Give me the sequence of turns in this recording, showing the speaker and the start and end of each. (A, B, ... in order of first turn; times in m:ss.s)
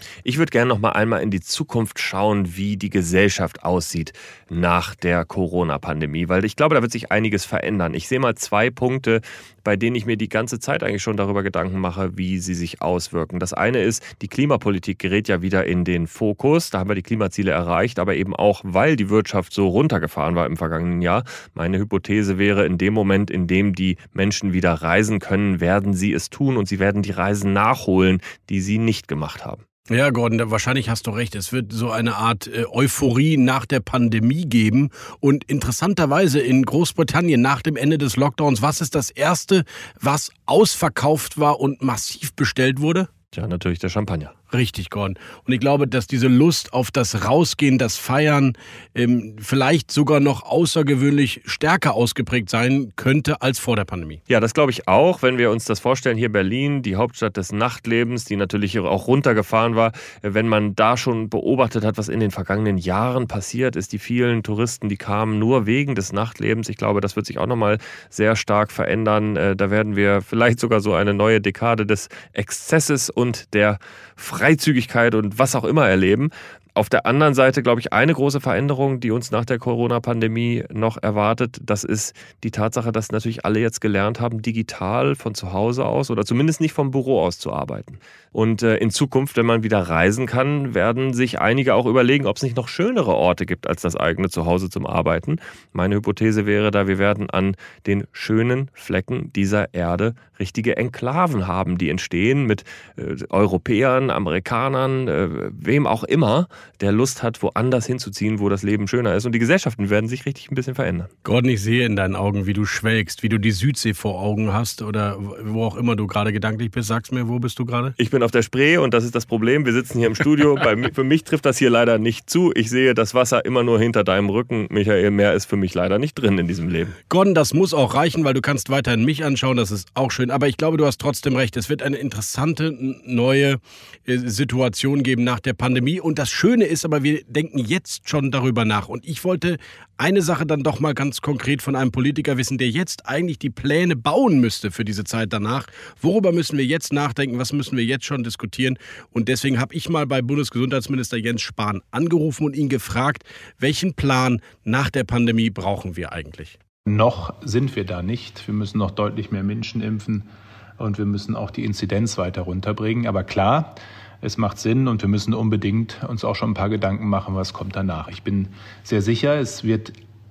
0:00.2-0:29.6 A
0:29.9-0:43.1 B
0:43.3-0:44.3 A
0:44.5-0:54.2 B
0:54.3-1:51.1 A
1:51.2-1:57.9 B
1:58.0-2:06.9 A
2:07.1-2:36.6 B
2:36.9-2:40.3 C
2:40.8-2:49.9 C